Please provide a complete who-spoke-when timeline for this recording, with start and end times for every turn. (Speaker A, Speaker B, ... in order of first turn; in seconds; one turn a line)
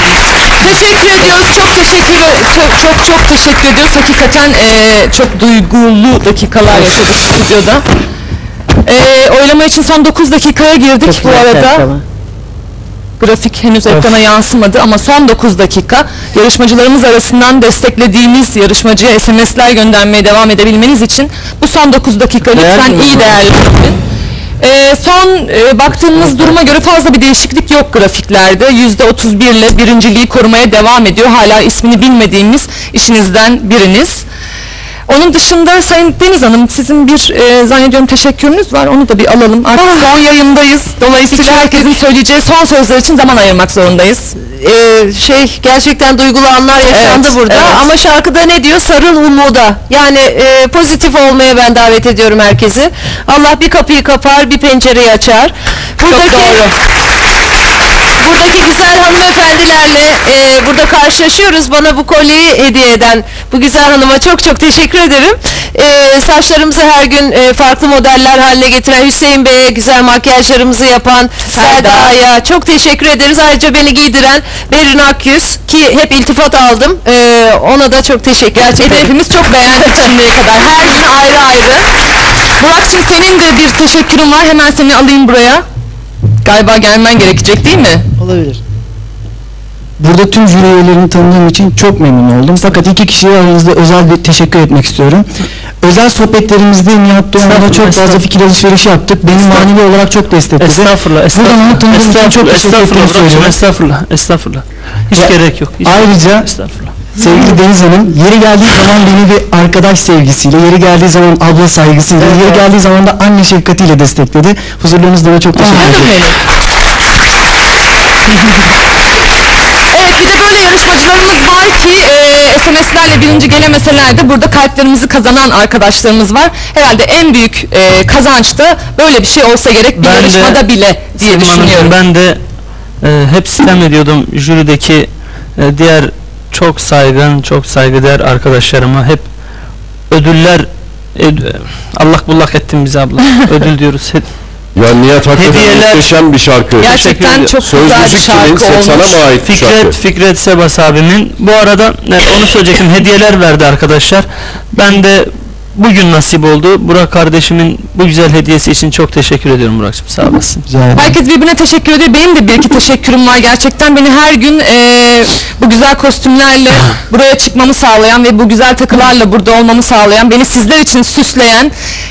Speaker A: 0.6-7.8
Speaker A: 8.8-11.9
Speaker B: 11.0-12.0
Speaker A: 13.2-24.0
Speaker C: 13.9-14.2
Speaker C: 22.5-23.4
Speaker A: 24.6-34.2
Speaker A: 35.1-44.3
Speaker B: 39.8-40.1
Speaker B: 41.3-41.9
Speaker B: 44.4-56.6
Speaker A: 46.9-47.9
Speaker A: 56.1-56.7
Speaker B: 58.2-79.1
Speaker A: 71.5-72.2
Speaker A: 78.5-81.8
Speaker A: 82.6-85.6
Speaker A: 86.4-88.1
Speaker D: 90.0-95.3
Speaker D: 95.8-103.6
Speaker C: 97.4-98.2
Speaker C: 99.3-99.7
Speaker C: 100.6-107.0
Speaker D: 105.1-116.3
Speaker A: 115.7-116.2
Speaker A: 119.9-132.0
Speaker C: 129.9-130.6
Speaker C: 131.2-132.4
Speaker C: 133.0-139.3
Speaker C: 140.1-144.3
Speaker E: 144.7-146.9
Speaker C: 145.3-146.1
Speaker C: 146.8-147.6
Speaker A: 146.8-149.2
Speaker E: 147.6-150.0
Speaker C: 149.4-160.6
Speaker D: 160.7-161.1
Speaker A: 160.9-171.7